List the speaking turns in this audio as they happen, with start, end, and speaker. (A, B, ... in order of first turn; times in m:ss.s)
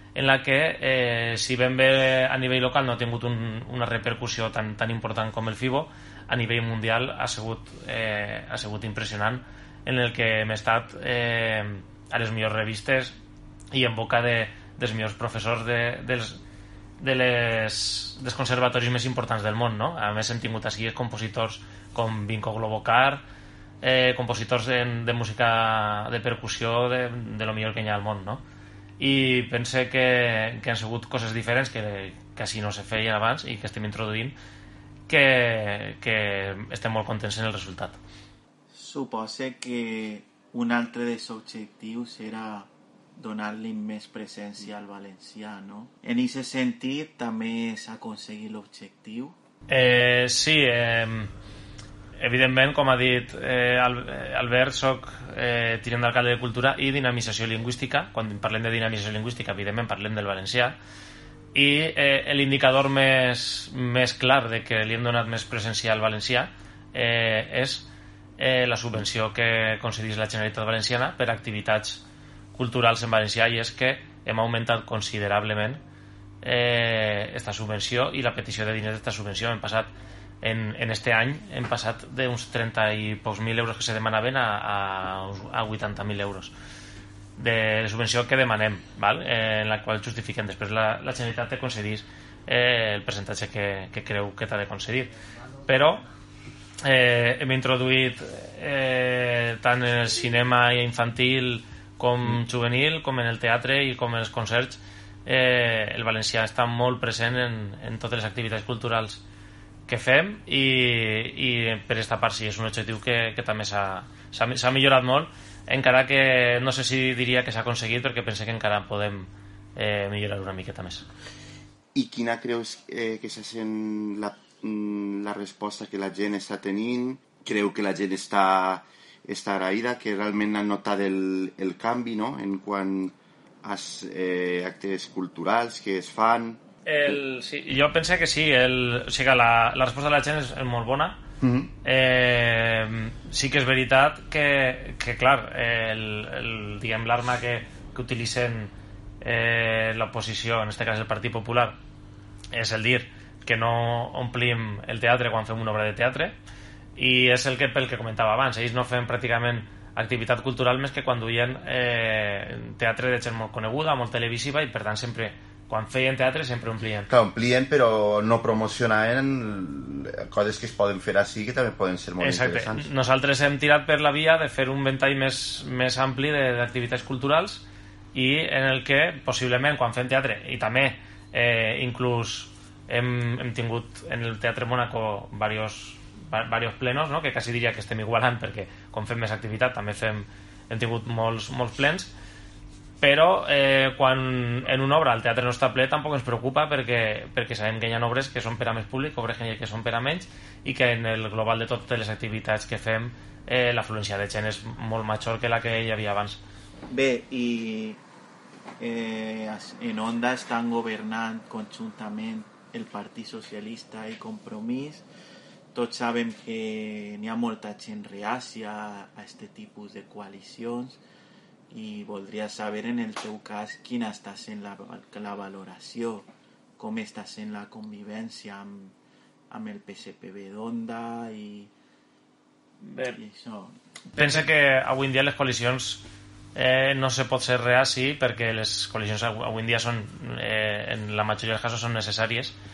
0:00.2-0:13.1 A
0:13.7-0:16.4 A
0:17.0-0:23.2 A
0:23.8-0:28.4 A
0:29.0-0:34.4 A
0:35.1-0:38.0 A
0:38.7-0:49.4 B
0:49.7-0:51.3 A
0:52.2-1:00.8 A
1:01.5-1:12.0 A
1:12.6-1:15.8 A
1:16.4-1:19.9 A
1:20.4-1:26.5 A
1:27.4-1:35.1 A
1:35.7-1:36.0 A
1:36.8-1:49.2 A
1:49.9-2:01.0 A
2:02.0-2:16.6 C
2:16.9-2:21.2 A
2:21.4-2:21.7 C
2:21.8-2:31.8 A
2:32.5-2:36.4 A
2:37.0-2:47.1 A
2:47.1-2:52.9 C
2:52.2-3:12.1 A
3:13.0-3:26.4 A
3:26.9-3:28.0 B
3:28.8-3:35.0 B
3:35.7-3:41.0 B
3:41.7-3:46.3 B
3:46.8-3:48.9 B
3:49.5-3:51.7 B
3:52.8-3:53.2 A
3:53.0-3:53.7 B
3:54.2-3:56.0 A
3:56.6-4:02.6 A